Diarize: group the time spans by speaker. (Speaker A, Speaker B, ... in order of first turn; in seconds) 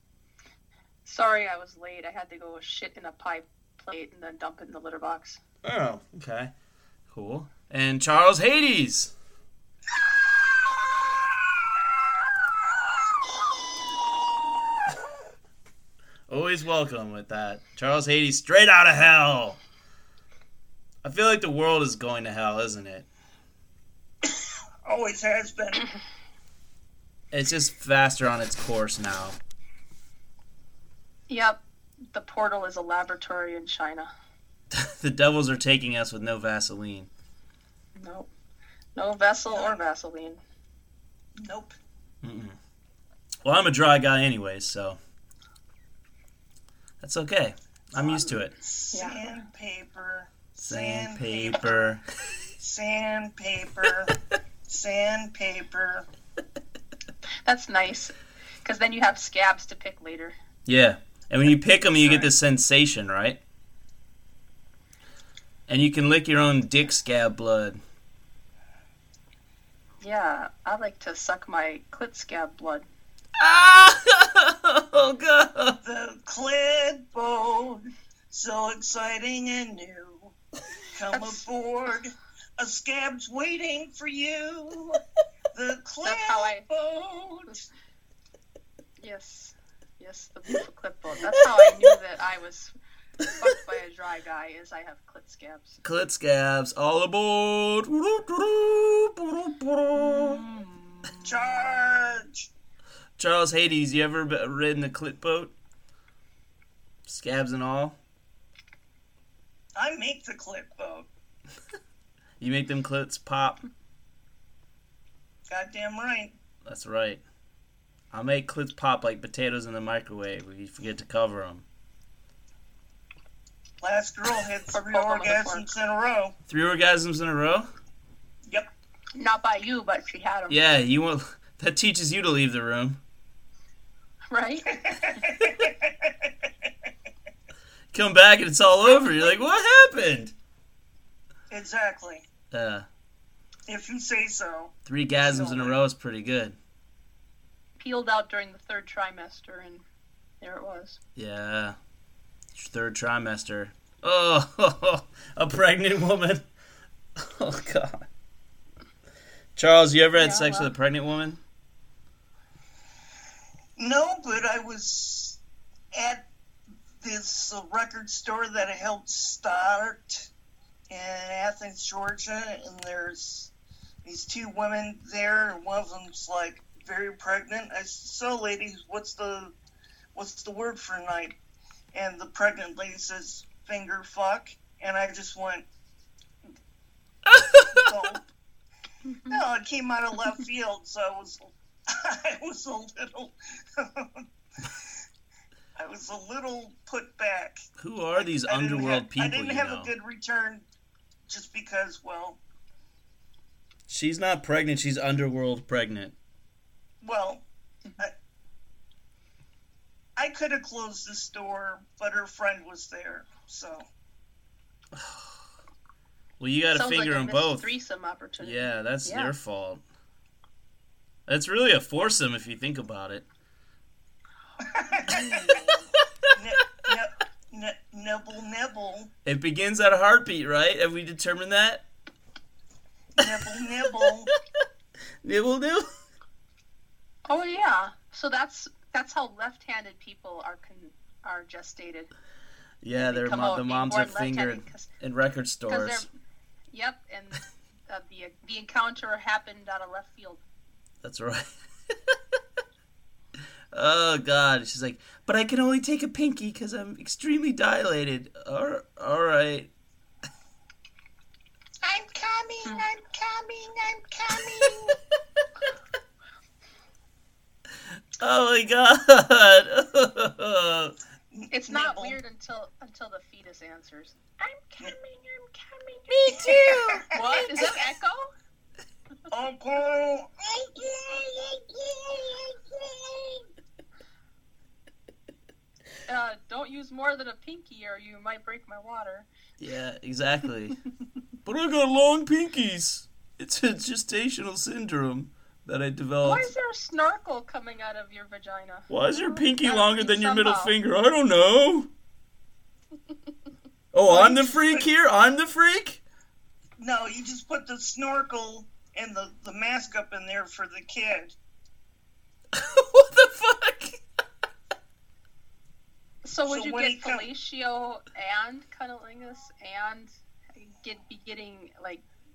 Speaker A: 1.1-5.4, 31.3-34.1, 38.0-38.3, 39.0-40.4, 48.0-48.3, 48.9-49.4, 57.5-60.4, 70.0-72.9, 81.1-81.4, 86.0-86.7, 89.0-92.7, 93.4-95.8, 100.4-101.1, 124.7-125.7, 129.1-130.6, 134.3-134.9, 147.8-149.8, 150.4-151.0, 160.2-160.7, 189.1-189.4, 216.7-219.3, 225.1-225.6, 237.3-242.1, 243.0-244.9, 245.7-246.1, 246.7-250.4, 271.5-278.3, 286.1-289.3, 296.2-300.7, 316.2-322.0
Speaker B: 5.6-6.5, 7.1-9.1, 16.3-19.6, 21.0-23.1, 27.3-29.4, 34.7-37.1, 42.2-42.6, 43.4-45.0, 47.0-48.5, 50.6-52.0, 60.7-63.4, 65.7-67.8, 73.4-75.8, 91.3-92.0, 95.8-100.5, 103.2-105.5, 107.1-108.0, 112.4-113.6, 116.7-117.2, 118.1-121.7, 126.5-127.7, 130.5-133.0, 137.9-140.3, 142.5-142.9, 144.9-146.6, 151.2-151.8, 152.5-156.4, 157.2-158.1, 159.6-161.4, 187.3-187.9, 197.8-199.9, 203.9-206.2, 214.9-215.4, 216.4-217.7, 218.4-219.8, 221.3-223.3, 229.2-231.8, 233.5-234.4, 235.2-235.9, 242.8-246.1, 251.0-251.5, 253.7-259.7, 264.4-264.8, 268.2-270.9, 289.6-290.8, 291.4-296.5, 298.9-301.9, 303.9-306.0, 312.5-314.0
Speaker C: 24.2-25.9, 39.5-39.8, 41.4-41.8, 48.6-51.9, 52.6-54.1, 54.7-56.1, 75.8-80.3, 80.9-85.0, 85.5-87.7, 101.2-102.5, 109.8-111.1, 115.5-116.3, 123.8-126.4, 134.7-136.7, 141.5-142.3, 143.7-145.8, 163.8-165.4, 165.9-166.3, 167.0-170.3, 170.9-173.5, 174.0-179.5, 180.1-181.4, 181.9-185.7, 187.7-188.2, 189.3-194.9, 195.8-197.6, 198.2-200.7, 201.3-202.4, 207.0-207.5, 210.2-213.9, 224.6-229.1, 233.2-234.3, 261.8-265.0, 271.3-272.2, 276.1-277.8, 279.3-283.5, 304.5-304.9, 306.8-311.4, 316.5-317.3